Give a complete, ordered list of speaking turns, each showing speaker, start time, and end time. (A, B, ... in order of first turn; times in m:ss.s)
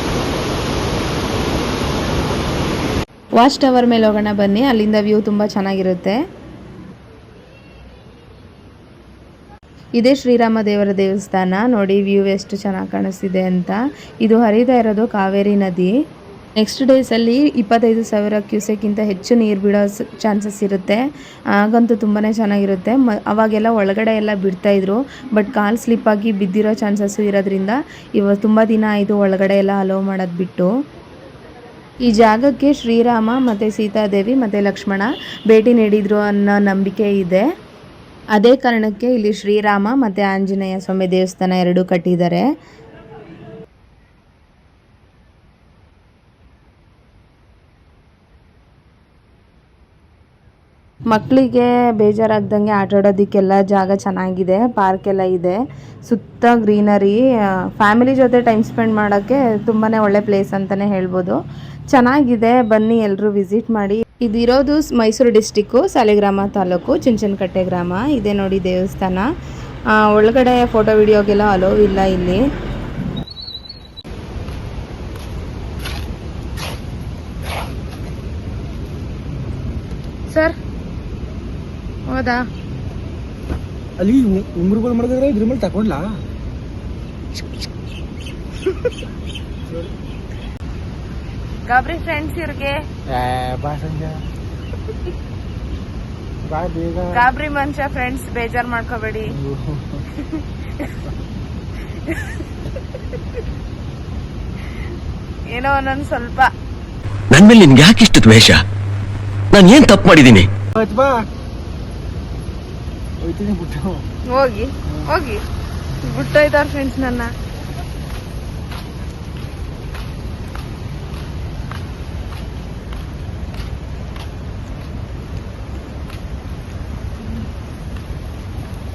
0:03.4-0:06.2 A
0:10.0-0:15.9 A
0:16.6-0:21.0 A
0:21.6-0:30.7 A
0:32.0-0:37.4 A
0:38.3-0:42.4 A
0:51.1-0:57.2 A
0:57.8-1:01.4 A
1:01.9-1:09.2 A
1:10.0-1:12.4 A
1:22.1-1:22.4 A
1:24.0-1:26.1 B
1:31.6-1:32.8 A
1:33.1-1:34.2 B
1:36.4-1:37.2 B
1:37.1-1:39.3 A
1:39.2-1:40.0 B
1:45.5-1:46.5 A
1:47.3-1:48.6 C
1:49.5-1:50.5 C
1:50.8-1:51.2 B
1:53.2-1:54.0 B
1:54.3-1:55.4 A
1:56.0-1:57.3 A